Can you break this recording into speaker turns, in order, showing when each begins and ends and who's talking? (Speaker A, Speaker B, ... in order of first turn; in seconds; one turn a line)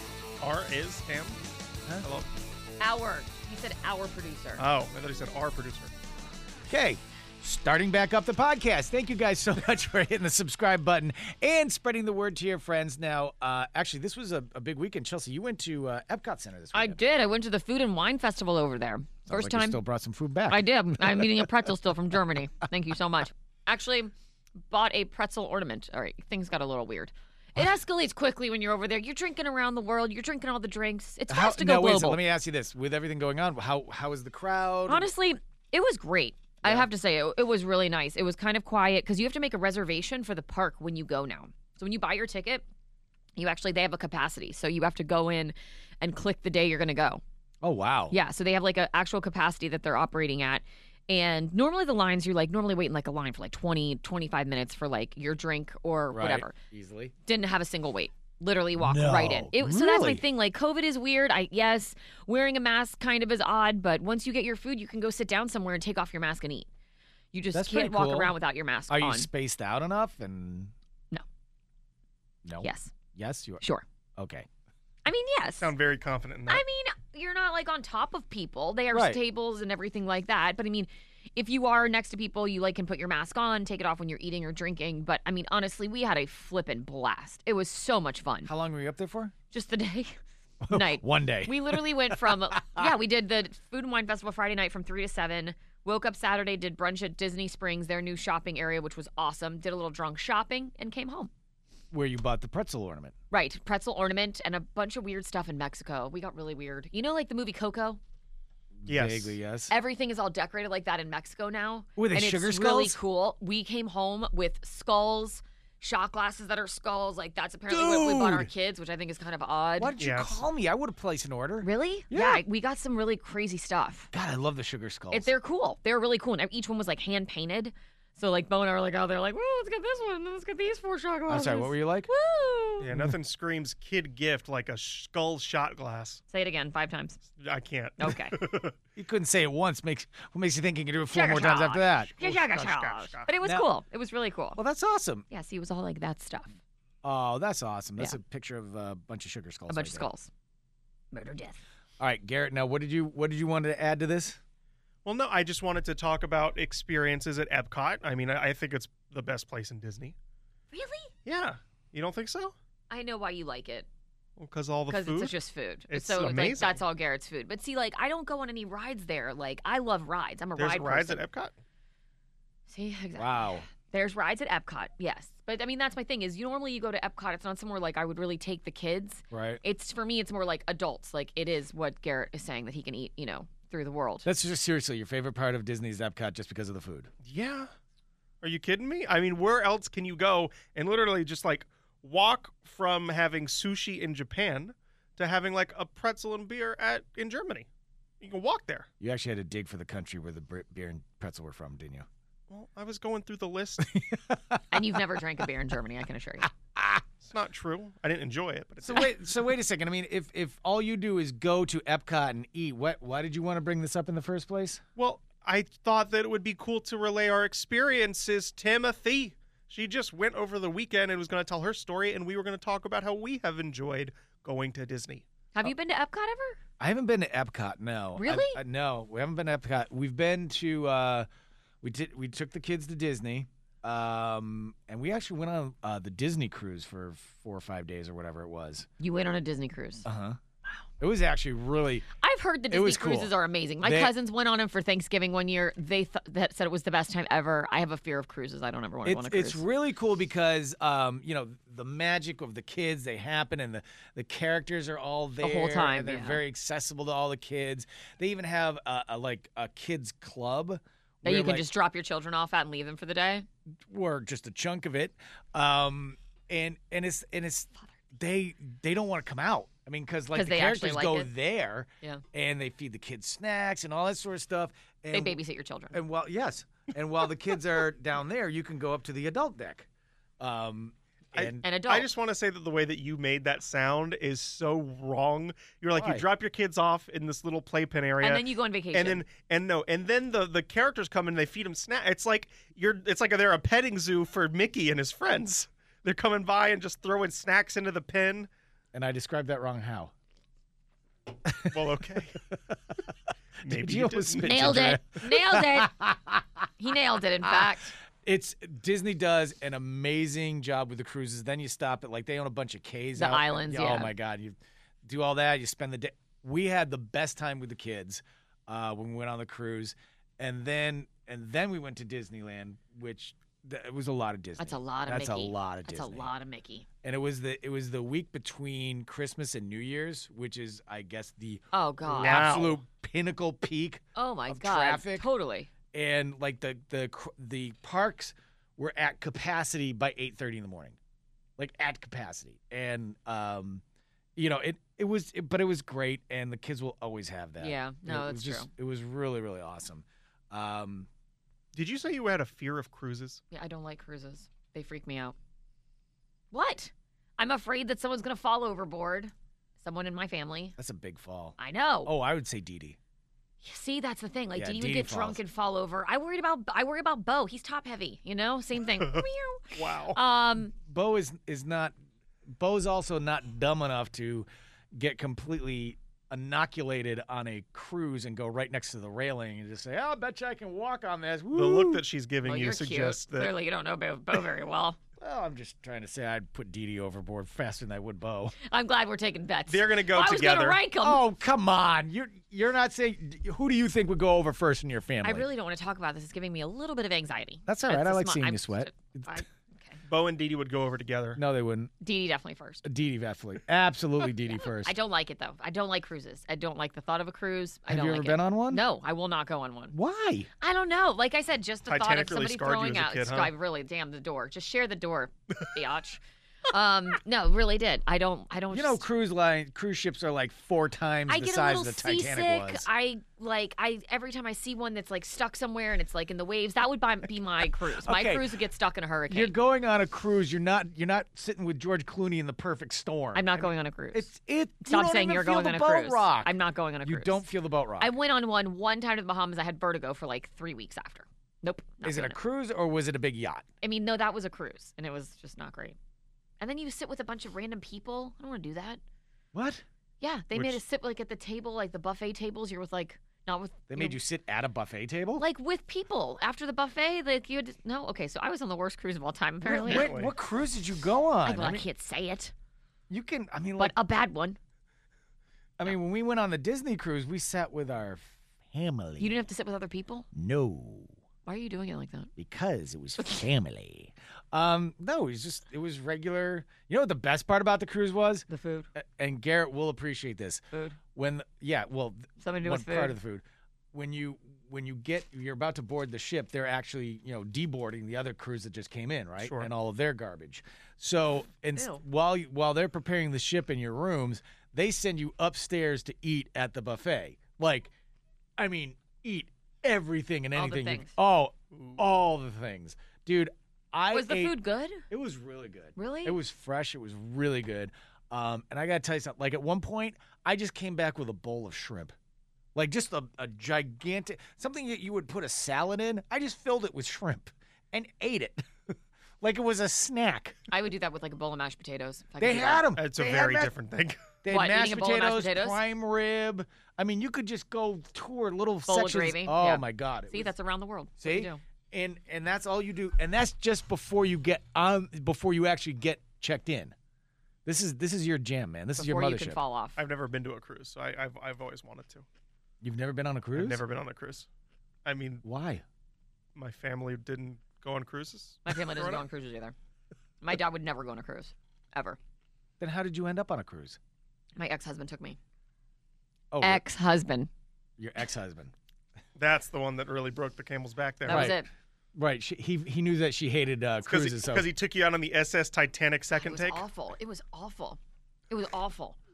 Speaker A: 0.4-1.4
Speaker A: 2.0-2.3
Speaker B: 2.8-4.7
Speaker A: 4.6-5.9
Speaker C: 6.7-17.0
Speaker B: 16.7-19.8
Speaker C: 19.3-21.3
Speaker B: 20.5-24.1
Speaker B: 24.7-32.2
Speaker C: 31.3-35.1
Speaker B: 34.9-42.7
Speaker C: 36.6-36.9
Speaker B: 43.4-47.2
Speaker C: 47.6-48.2
Speaker B: 48.1-56.6
Speaker C: 56.1-57.1
Speaker B: 57.2-66.7
Speaker C: 58.8-60.2
Speaker B: 67.3-69.3
Speaker C: 67.5-68.4
Speaker C: 68.9-70.7
Speaker C: 72.5-73.6
Speaker B: 72.6-72.9
Speaker C: 74.2-74.5
Speaker B: 75.0-75.7
Speaker A: 75.6-76.6
Speaker B: 76.5-88.5
Speaker C: 78.9-79.2
Speaker C: 88.5-89.3
Speaker B: 89.5-101.3
Speaker C: 90.7-92.9
Speaker C: 101.9-103.2
Speaker B: 103.3-108.0
Speaker C: 108.8-109.7
Speaker A: 108.9-109.4
Speaker B: 109.7-119.9
Speaker C: 112.0-113.0
Speaker C: 117.7-118.5
Speaker C: 119.8-122.4
Speaker A: 120.0-120.4
Speaker B: 121.6-124.1
Speaker C: 124.1-125.3
Speaker B: 125.1-132.9
Speaker C: 131.3-132.1
Speaker A: 132.8-136.2
Speaker B: 136.3-137.2
Speaker A: 137.4-138.7
Speaker B: 138.0-138.4
Speaker C: 139.0-142.2
Speaker B: 141.1-144.6
Speaker A: 142.2-143.3
Speaker C: 143.4-143.7
Speaker C: 144.6-145.3
Speaker B: 145.3-146.6
Speaker C: 147.0-150.1
Speaker B: 149.7-150.3
Speaker B: 151.1-151.6
Speaker C: 152.0-154.4
Speaker A: 155.1-160.2
Speaker B: 160.7-161.1
Speaker A: 161.3-162.5
Speaker B: 162.9-163.9
Speaker A: 164.4-165.3
Speaker B: 164.9-171.2
Speaker A: 165.9-166.8
Speaker A: 170.6-171.5
Speaker B: 172.7-184.3
Speaker C: 173.2-173.7
Speaker C: 179.3-179.6
Speaker C: 184.2-187.1
Speaker A: 187.2-187.7
Speaker A: 188.4-197.7
Speaker A: 198.2-198.9
Speaker C: 199.0-202.1
Speaker A: 202.5-204.0
Speaker C: 203.9-204.6
Speaker B: 204.7-206.5
Speaker A: 207.2-209.2
Speaker C: 208.8-214.8
Speaker A: 215.0-225.3
Speaker B: 225.5-226.6
Speaker C: 226.8-231.3
Speaker B: 228.2-228.6
Speaker C: 231.8-238.9
Speaker B: 239.0-240.1
Speaker C: 240.1-240.4
Speaker C: 241.0-242.1
Speaker B: 242.2-249.7
Speaker C: 242.7-244.1
Speaker C: 249.0-261.7
Speaker B: 255.4-256.4
Speaker B: 261.2-263.5
Speaker C: 263.9-275.4
Speaker B: 270.3-271.3
Speaker B: 275.1-276.0
Speaker C: 275.9-279.9
Speaker C: 280.4-281.6
Speaker A: 281.4-298.5
Speaker B: 281.6-282.1
Speaker C: 285.9-286.3
Speaker B: 288.2-289.2
Speaker C: 298.9-300.1
Speaker C: 301.4-301.8
Speaker A: 301.7-302.4
Speaker A: 303.6-304.7
Speaker C: 303.7-306.4
Speaker B: 304.4-306.0
Speaker B: 306.8-307.9
Speaker C: 308.2-326.3
Speaker B: 313.2-314.1
Speaker B: 324.6-326.9
Speaker C: 327.0-335.3
Speaker B: 331.7-332.6
Speaker A: 332.1-332.8
Speaker B: 334.1-335.7
Speaker C: 335.9-341.0
Speaker C: 341.6-343.8
Speaker C: 344.4-351.1
Speaker B: 347.6-348.7
Speaker A: 351.7-353.4
Speaker B: 353.5-355.4
Speaker B: 356.5-360.8
Speaker C: 360.8-363.0
Speaker B: 361.6-362.1
Speaker B: 363.6-370.7
Speaker C: 364.6-365.4
Speaker A: 369.1-370.2
Speaker C: 370.9-371.9
Speaker C: 372.5-382.0
Speaker A: 381.5-383.5
Speaker B: 382.4-385.0
Speaker C: 385.2-388.6
Speaker B: 388.7-391.2
Speaker A: 389.7-390.8
Speaker C: 391.0-395.5
Speaker B: 395.2-400.0
Speaker C: 397.7-399.4
Speaker A: 400.1-401.4
Speaker C: 401.4-401.9
Speaker B: 402.0-402.9
Speaker C: 402.8-404.9
Speaker B: 404.7-409.9
Speaker C: 407.9-408.8
Speaker C: 409.9-410.5
Speaker B: 410.6-419.1
Speaker A: 411.9-413.5
Speaker C: 418.7-422.9
Speaker B: 421.3-429.5
Speaker C: 428.0-428.5
Speaker C: 429.3-436.5
Speaker B: 433.3-434.3
Speaker B: 434.8-437.4
Speaker C: 437.0-438.1
Speaker B: 438.0-442.4
Speaker C: 442.0-443.6
Speaker B: 443.8-446.0
Speaker B: 446.6-449.0
Speaker C: 449.5-449.8
Speaker B: 450.2-454.2
Speaker C: 453.9-455.4
Speaker B: 455.4-460.1
Speaker C: 459.6-461.9
Speaker A: 459.8-460.3
Speaker B: 461.4-462.5
Speaker C: 463.1-464.0
Speaker B: 463.8-464.6
Speaker C: 465.8-469.4
Speaker B: 469.2-470.3
Speaker C: 470.3-471.1
Speaker B: 471.5-472.3
Speaker C: 472.4-480.6
Speaker B: 478.5-478.9
Speaker B: 480.7-481.0
Speaker C: 481.1-497.9
Speaker B: 482.4-483.2
Speaker A: 489.4-489.7
Speaker B: 491.8-492.0
Speaker C: 498.6-504.6
Speaker B: 500.6-501.1
Speaker A: 501.7-502.0
Speaker B: 504.1-505.0
Speaker C: 505.1-512.1
Speaker B: 506.0-506.4
Speaker C: 512.8-518.7
Speaker C: 519.4-520.5
Speaker B: 520.7-522.9
Speaker C: 522.4-523.7
Speaker A: 523.0-524.2
Speaker C: 524.4-530.5
Speaker B: 524.5-525.8
Speaker B: 528.9-531.6
Speaker C: 531.2-537.0
Speaker C: 537.7-539.6
Speaker B: 539.0-540.0
Speaker A: 540.0-542.3
Speaker C: 542.8-543.8
Speaker A: 543.5-544.5
Speaker A: 545.0-545.4
Speaker C: 545.4-545.8
Speaker A: 546.6-549.2
Speaker B: 548.6-549.8
Speaker B: 550.4-552.2
Speaker C: 552.8-554.0
Speaker B: 554.6-555.4
Speaker C: 556.5-556.8
Speaker B: 556.6-557.5
Speaker C: 558.0-558.7
Speaker A: 559.4-561.6
Speaker B: 561.2-561.7
Speaker C: 561.3-561.6
Speaker C: 562.2-564.7
Speaker A: 564.1-566.8
Speaker B: 566.4-568.0
Speaker B: 568.5-569.2